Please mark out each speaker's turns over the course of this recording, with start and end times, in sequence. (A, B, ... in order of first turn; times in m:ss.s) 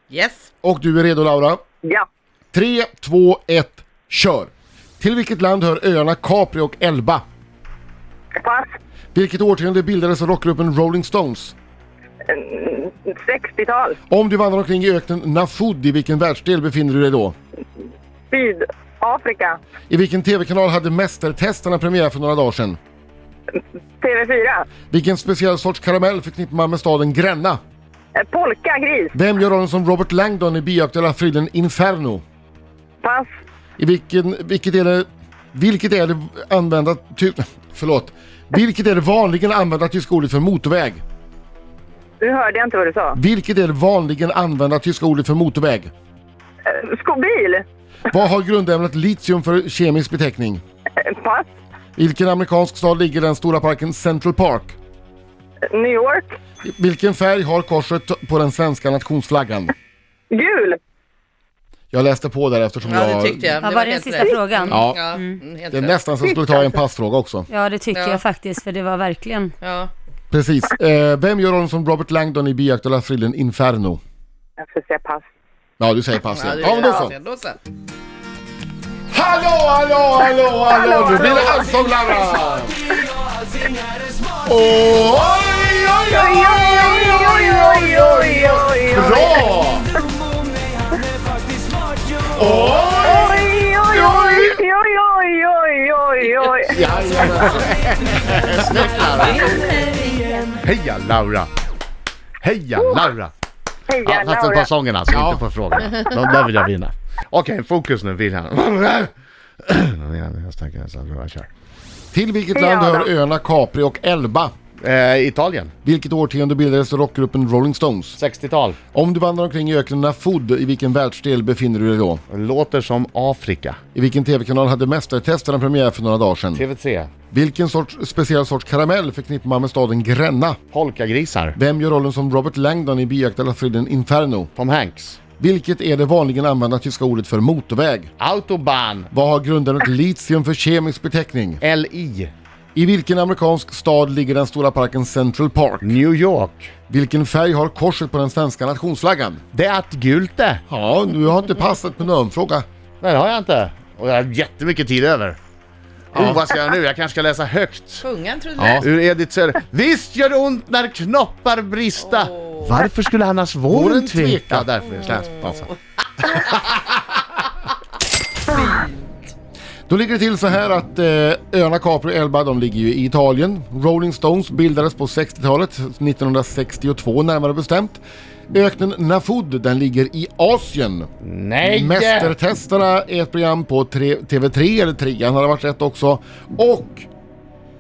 0:00.1-0:00.4 A
0:00.6-0:01.6 B
0:02.5-0:07.2 B
0:08.4-0:08.7 C
0:09.1-0:11.5 B
0:12.3-0:14.0 C
0:14.1-0:17.3 B
0:18.3-0:19.6 C
0:19.9-0:22.8 B
0:24.0-0:24.7 C
0:24.9-0:27.6 B
0:28.2-0:29.1 C
0:29.1-0:32.2 B
0:33.0-0:33.3 C
0:33.8-0:41.0 B
0:42.2-0:43.2 C
0:43.1-0:45.9 B
0:46.7-0:47.6 C
0:48.1-0:50.6 B
0:51.0-0:51.4 C
0:52.0-0:54.8 B
0:55.7-0:56.3 C
0:56.6-0:59.7 B
1:00.3-1:00.8 C
1:01.9-1:03.5 B
1:02.8-1:06.0 A
1:03.6-1:05.4 D
1:04.7-1:07.5 B
1:07.5-1:09.5 D
1:07.9-1:08.2 A
1:09.6-1:09.9 A
1:10.3-1:14.0 B
1:14.6-1:15.2 C
1:15.8-1:17.2 B
1:16.3-1:17.6 A
1:19.1-1:22.8 B
1:20.7-1:21.6 C
1:24.4-1:29.8 B
1:26.1-1:29.5 C
1:32.3-1:34.6 B
1:33.0-1:36.8 C
1:36.6-1:38.8 B
1:38.3-1:39.7 E
1:39.2-1:40.5 A
1:40.6-1:41.5 E
1:42.4-1:43.3 E
1:43.9-1:44.7 C
1:44.0-1:49.1 E
1:45.1-1:45.4 B
1:49.6-1:51.5 E
1:52.1-1:54.5 B
1:52.5-1:53.1 C
1:54.8-1:55.7 E
1:55.8-1:58.2 B
1:58.2-1:58.8 E
1:58.9-2:02.2 B
2:02.3-2:03.8 E
2:03.9-2:06.6 B
2:06.5-2:07.1 E
2:07.3-2:10.6 B
2:10.7-2:11.6 E
2:11.5-2:14.5 B
2:14.6-2:15.2 E
2:15.4-2:18.1 B
2:18.2-2:19.1 E
2:19.1-2:21.6 B
2:21.6-2:22.3 E
2:22.7-2:25.9 B
2:25.8-2:26.7 E
2:26.9-2:29.4 B
2:29.5-2:30.6 E
2:30.7-2:32.6 B
2:33.0-2:35.4 E
2:36.1-2:38.0 E
2:36.1-2:36.4 B
2:38.0-2:38.8 A
2:38.6-2:38.8 B
2:38.8-2:45.5 E
2:42.0-2:42.8 A
2:43.7-2:45.7 B
2:45.1-2:45.7 A
2:48.5-2:48.9 A
2:49.9-3:01.1 B
3:01.2-3:02.4 E
3:01.6-3:07.1 B